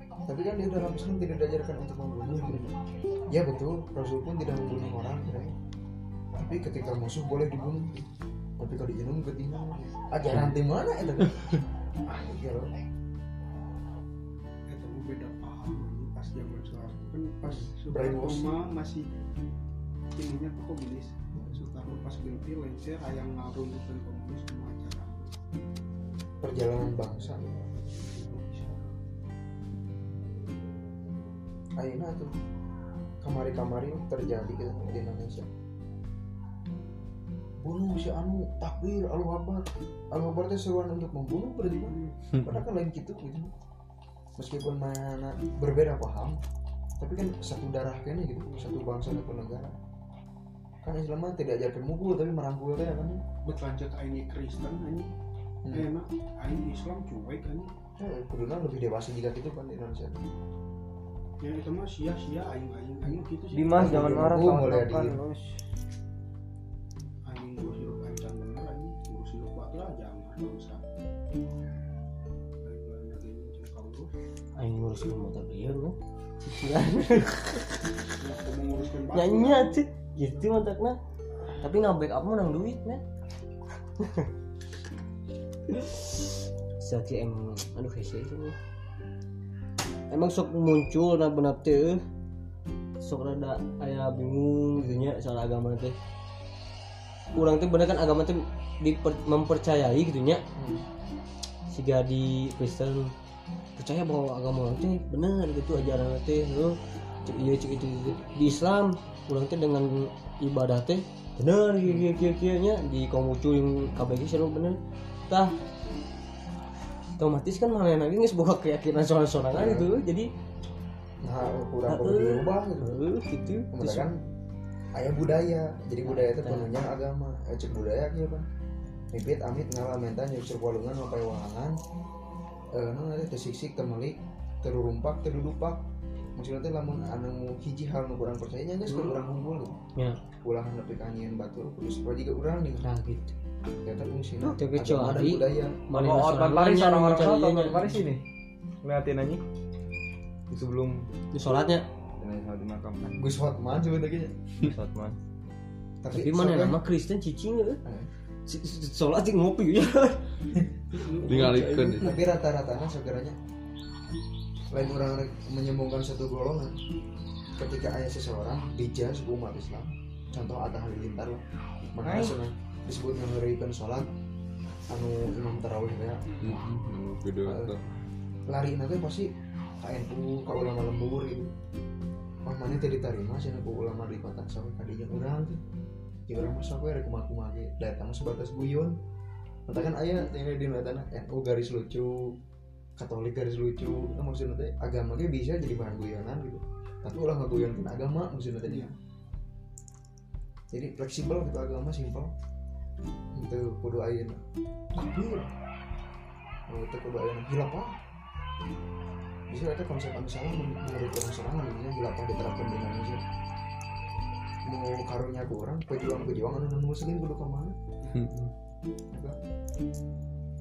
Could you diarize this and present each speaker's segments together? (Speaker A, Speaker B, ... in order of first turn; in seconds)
Speaker A: 0.2-2.7, 3.3-5.5, 6.3-8.0, 8.6-11.5, 12.0-12.7, 17.4-18.6, 21.3-21.6, 26.4-27.6, 31.8-32.3, 33.2-35.5, 37.6-43.5, 44.4-46.4, 47.0-49.7, 50.8-53.2, 55.6-55.9, 58.0-60.2, 63.8-65.2, 94.7-95.1, 100.5-100.8, 119.5-119.9, 121.2-123.0, 123.7-124.2, 124.9-128.4, 129.1-131.8, 132.7-135.8, 136.4-139.8, 140.4-142.8, 143.7-145.8, 153.2-154.3, 156.0-156.8, 161.4-163.3, 164.7-166.7, 167.6-171.4, 171.9-174.1, 174.9-176.2, 177.4-177.8, 178.5-179.3, 179.8-181.5, 182.4-185.6, 186.3-188.9, 189.7-192.3, 193.0-198.9, 200.7-202.3, 203.3-204.4, 204.9-205.5, 206.7-208.0, 209.5-213.2, 214.6-217.7, 219.1-219.3
Speaker B: 14.7-19.1, 20.1-25.3, 27.9-28.9, 41.9-42.1, 53.4-55.1, 55.7-57.7, 61.4-64.3, 67.2-70.8, 72.6-74.1, 78.2-79.8, 160.9-161.8
Speaker C: 42.3-42.6, 161.2-162.2, 176.4-177.8, 218.1-218.5
Speaker D: 63.5-65.5, 145.9-148.2, 148.8-149.4, 150.5-151.1, 152.2-153.2, 154.6-155.2, 172.0-172.3
Speaker E: 63.9-64.2, 74.6-77.6, 79.1-81.0, 81.6-83.0, 84.0-84.3, 85.7-88.5, 90.1-92.0, 93.0-95.9, 97.3-100.4, 101.7-103.1, 103.8-115.5, 117.2-120.3, 121.9-124.0, 126.0-126.7, 138.9-139.2, 142.8-143.3, 144.4-148.0, 151.3-151.8, 156.1-157.8, 158.5-160.2, 161.3-161.7